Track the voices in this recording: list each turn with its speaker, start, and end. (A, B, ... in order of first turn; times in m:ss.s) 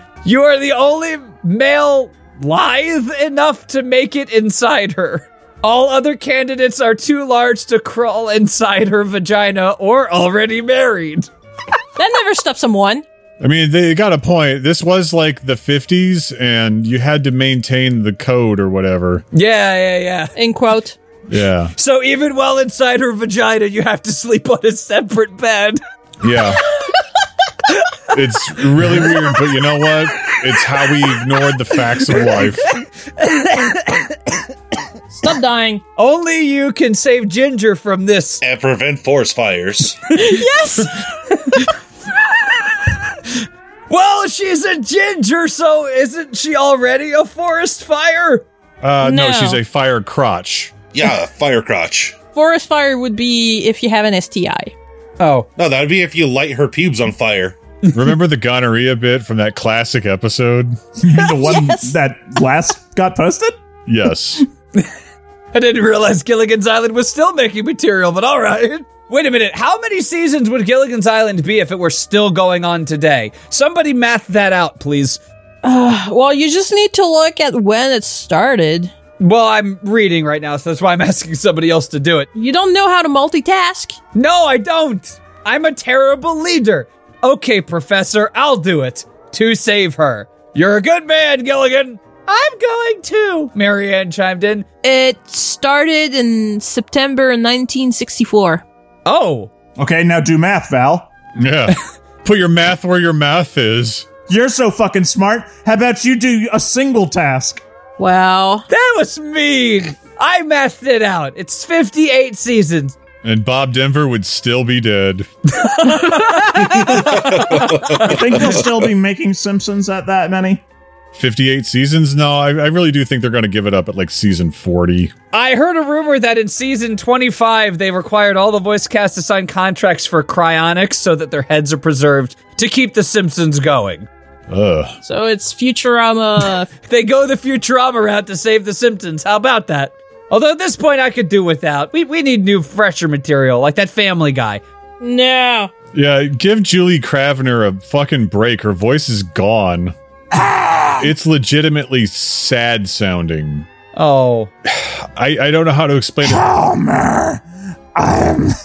0:00.2-0:11.3 A
0:12.0-0:13.0 B
0:13.4-0:19.2 C
0:19.3-0:20.3 A
0:20.4-0:21.0 B
0:21.3-0:21.7 C
0:21.8-0:25.8 A
0:26.2-0:26.6 C
0:27.6-0:28.0 A
0:28.1-0:32.8 C
0:28.9-0:29.2 A
0:32.1-0:34.5 A
0:35.1-0:35.8 B
0:36.0-0:38.4 A
0:38.4-0:40.0 D
0:40.1-0:41.0 B
0:41.2-0:43.0 A
0:43.9-0:48.4 A
0:48.8-0:50.7 C
0:49.0-0:49.6 B
0:50.9-0:52.2 D
0:52.4-0:54.7 B
0:55.2-0:55.5 A
0:55.6-0:57.6 D
0:57.9-0:58.1 A
0:57.9-1:00.8 C
1:01.0-1:03.6 E
1:01.1-1:01.9 B
1:03.9-1:04.4 C
1:05.5-1:15.2 A
1:15.6-1:18.9 B
1:19.2-1:22.3 A
1:22.3-1:24.0 B
1:24.1-1:34.7 A
1:34.8-1:38.6 B
1:39.1-1:39.5 A
1:39.8-1:41.1 E
1:41.4-1:44.1 C
1:44.3-1:47.6 E
1:48.0-1:48.7 B
1:48.7-1:53.0 A
1:53.2-1:55.3 C
1:55.6-1:58.2 A
1:56.6-1:58.8 D
1:58.0-2:00.6 E
2:01.1-2:05.1 C
2:05.3-2:14.1 A
2:14.5-2:15.0 C
2:15.0-2:16.7 B
2:16.8-2:24.6 A
2:25.0-2:25.7 B
2:25.9-2:30.0 C
2:30.3-2:31.1 E
2:31.0-2:33.7 C
2:34.0-2:34.5 A
2:34.7-2:36.5 C
2:36.2-2:37.4 E
2:38.0-2:38.6 E